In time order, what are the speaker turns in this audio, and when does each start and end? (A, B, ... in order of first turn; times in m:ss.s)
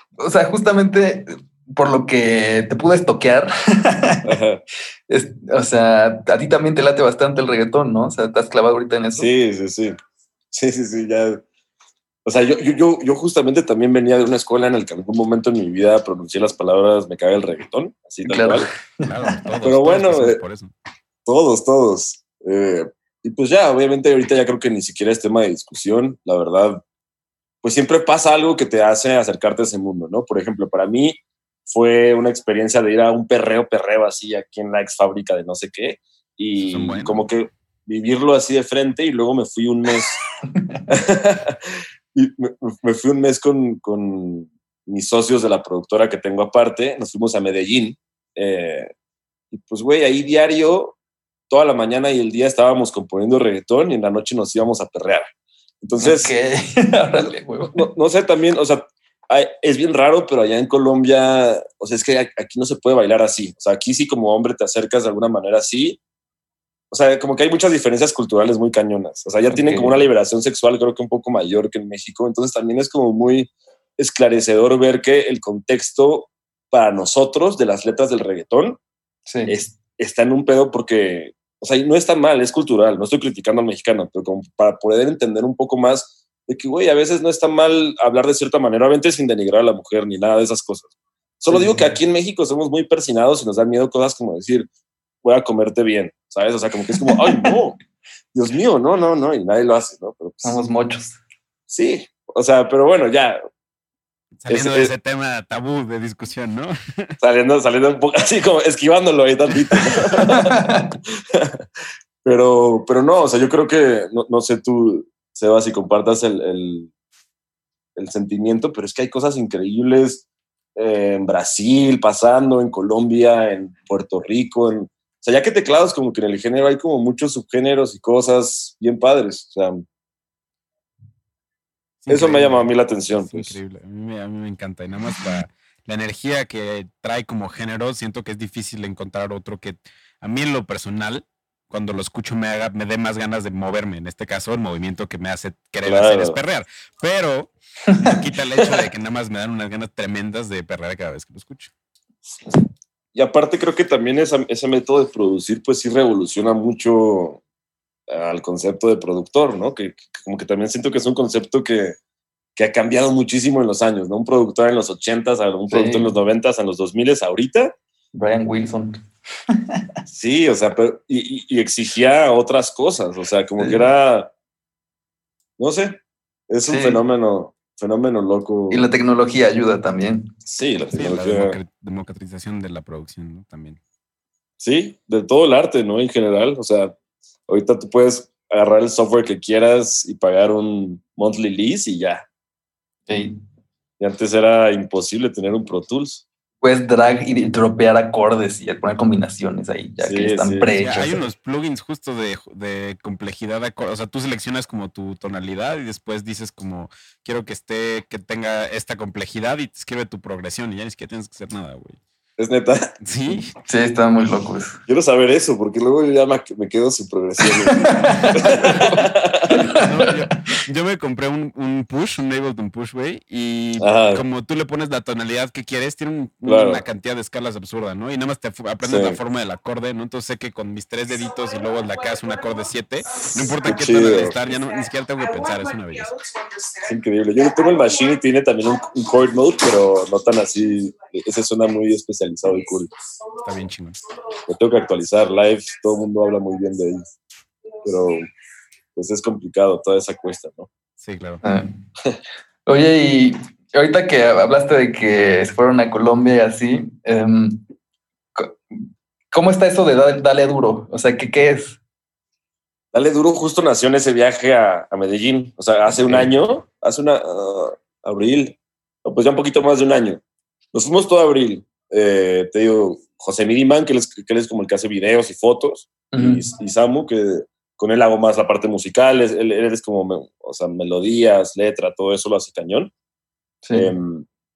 0:00.2-0:04.3 A
0:04.2-0:04.6 B
0:05.1-0:09.3 A
0:09.2-0:09.9 B
0:10.5-0:11.4 B
0:12.2-0:18.7 B
0:18.2-0:19.4 A
0:19.0-0:20.7 C
0:19.6-0:20.4 B
0:21.3-0:26.8 B
0:27.6-0:40.2 B
0:36.6-0:37.2 C
0:40.5-0:40.8 A
0:40.9-0:41.6 B
0:42.1-0:48.9 B
0:49.5-0:51.0 B
0:51.5-0:55.3 B
0:55.8-0:56.3 B
0:56.0-0:57.9 A
0:57.8-1:06.0 B
1:06.9-1:18.8 B
1:09.5-1:10.0 A
1:19.3-1:19.5 A
1:19.5-1:34.7 B
1:31.5-1:31.9 A
1:35.2-1:37.8 B
1:37.1-1:37.6 A
1:38.3-1:40.6 B
1:40.4-1:41.2 A
1:41.7-1:43.4 B
1:44.4-1:47.2 C
1:44.5-1:44.9 B
1:47.2-1:50.8 B
1:50.3-1:50.9 A
1:51.3-1:51.6 B
1:52.2-1:56.9 B
1:58.0-2:00.2 B
2:00.8-2:09.9 B
2:12.0-2:12.7 C
2:12.1-2:13.6 B
2:13.2-2:31.7 C
2:25.8-2:26.4 B
2:27.9-2:28.8 A
2:33.1-2:37.4 B
2:38.1-2:42.0 B
2:42.6-2:47.8 B
2:45.7-2:46.2 A
2:48.1-2:49.9 A
2:50.1-2:54.3 B
2:53.6-2:53.8 A
2:55.6-2:56.0 B
2:56.5-2:58.9 B
2:56.7-2:57.0 A
2:58.7-3:00.4 A
3:00.5-3:01.6 B
3:00.9-3:03.8 C
3:04.6-3:07.0 B
3:07.5-3:12.3 B
3:13.1-3:13.4 A
3:14.0-3:16.2 B
3:16.6-3:21.2 A
3:20.0-3:20.7 B
3:20.8-3:32.0 C
3:32.4-3:32.9 B
3:33.0-3:33.5 C
3:33.7-3:34.8 A
3:34.9-3:39.8 B
3:37.7-3:40.6 A
3:39.8-3:56.2 C
3:43.8-3:44.2 B
3:46.4-3:46.8 B
3:48.8-3:49.2 B
3:53.6-3:54.4 B
3:56.8-4:02.9 B
4:03.4-4:04.0 C
4:04.5-4:07.1 B
4:07.8-4:08.3 B
4:09.0-4:10.7 B
4:11.0-4:11.4 C
4:11.4-4:11.8 A
4:12.7-4:17.6 A
4:18.4-4:18.8 A
4:19.3-4:21.8 A
4:22.9-4:30.2 B
4:25.9-4:26.3 A
4:30.7-4:42.9 B
4:36.1-4:36.4 A
4:43.6-4:43.9 A
4:43.7-4:44.3 B